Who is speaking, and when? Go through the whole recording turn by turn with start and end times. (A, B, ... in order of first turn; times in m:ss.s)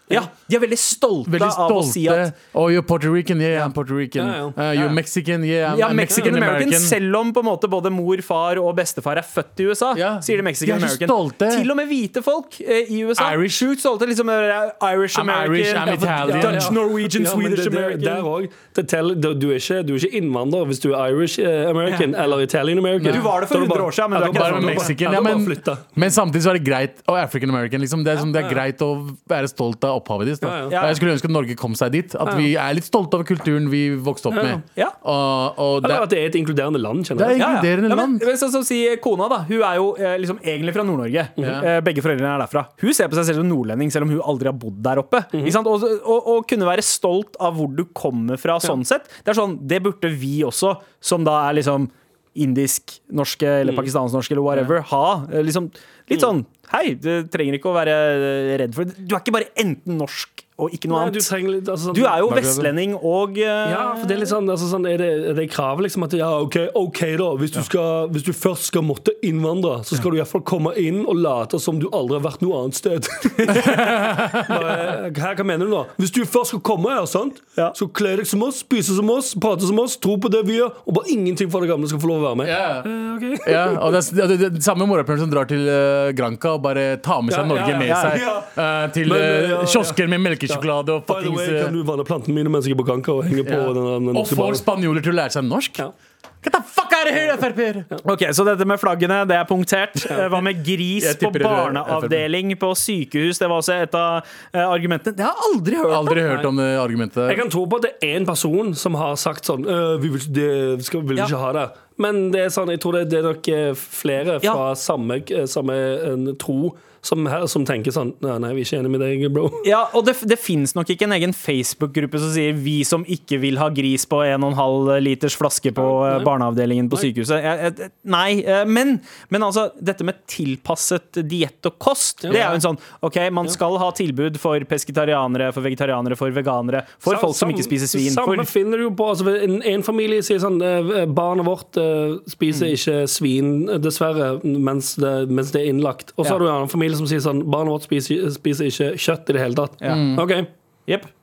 0:00.1-0:02.3 A
0:01.3-0:07.0 B
0:04.2-0:04.9 C
0:05.7-0:18.3 A
0:06.1-0:06.4 C
0:09.9-0:11.7 B
0:13.2-0:13.6 B
0:15.1-0:16.8 B
0:15.8-0:25.9 C
0:21.9-0:22.2 A
0:23.0-0:23.3 B
0:23.1-0:25.2 A
0:24.3-0:36.1 B
0:30.4-0:30.8 C
0:30.7-0:31.0 A
0:32.2-0:32.5 C
0:34.3-0:34.6 C
0:35.8-0:37.4 C
0:37.2-0:38.3 B
0:37.4-1:01.3 A
0:41.4-0:41.7 B
0:53.6-0:53.9 C
1:00.9-1:02.3 C
1:01.9-1:04.3 A
1:02.3-1:02.7 B
1:03.6-1:13.8 C
1:13.5-1:14.9 B
1:14.4-1:24.0 C
1:22.4-1:22.9 B
1:23.4-1:31.8 B
1:27.3-1:28.5 C
1:27.8-1:28.4 A
1:29.0-1:34.6 C
1:33.4-1:35.8 B
1:36.4-1:37.9 B
1:38.0-1:46.2 A
1:41.0-1:42.2 B
1:45.9-1:47.4 B
1:47.3-1:59.7 C
1:59.6-2:18.5 A
2:05.8-2:06.3 C
2:12.2-2:12.6 C
2:17.1-2:30.5 C
2:29.8-2:30.1 A
2:29.9-2:30.3 B